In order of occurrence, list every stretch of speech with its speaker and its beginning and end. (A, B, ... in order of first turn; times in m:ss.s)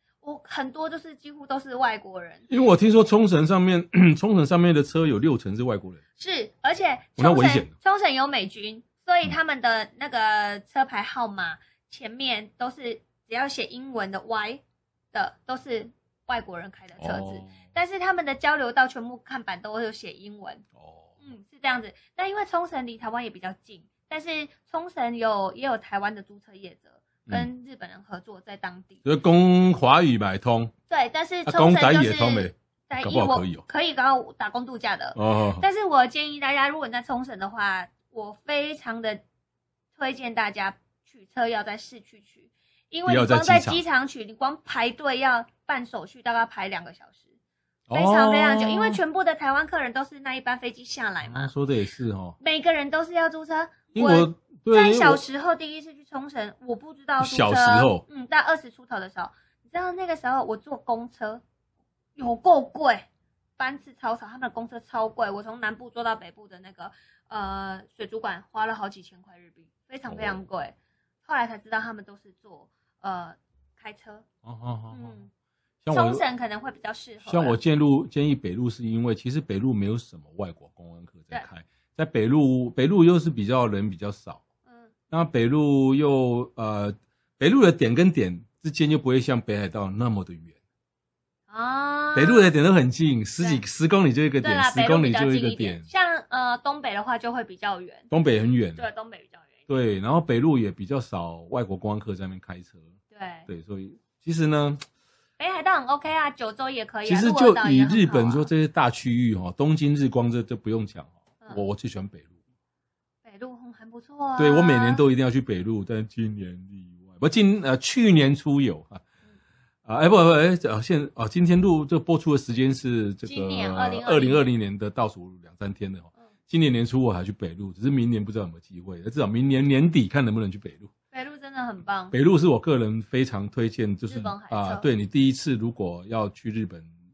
0:00.2-0:02.5 A
0:02.5-0:06.0 B
0:06.2-0:20.6 A
0:07.2-0:07.7 B
0:17.0-0:17.6 B
0:20.8-0:21.1 B
0:21.2-0:29.0 A
0:29.0-0:30.7 B
0:30.9-0:39.2 A
0:31.4-0:33.6 B
0:35.1-0:35.6 B
0:39.9-0:47.3 A
0:43.1-0:43.8 B
0:47.9-0:49.0 B
0:47.9-0:51.5 A
0:51.2-0:52.4 B
0:52.4-1:01.4 A
0:53.9-0:55.2 B
0:57.2-0:58.0 B
1:02.2-1:03.0 A
1:03.6-1:14.2 A
1:10.1-1:10.4 B
1:14.4-1:15.2 B
1:14.9-1:15.3 A
1:15.8-1:16.2 B
1:15.9-1:17.6 A
1:17.2-1:24.4 B
1:24.6-1:24.9 A
1:25.1-1:30.5 B
1:31.5-1:32.5 A
1:32.1-1:35.8 B
1:34.4-1:38.1 A
1:38.1-1:38.8 B
1:38.8-1:39.6 A
1:39.7-1:42.8 B
1:43.1-1:43.5 A
1:43.5-1:44.8 B
1:45.4-1:48.5 A
1:47.0-1:52.3 B
1:53.2-1:55.0 A
1:54.4-1:59.0 B
1:59.8-2:10.9 B
2:03.2-2:04.5 A
2:11.1-2:12.1 A
2:12.1-2:16.9 B
2:14.0-2:14.9 A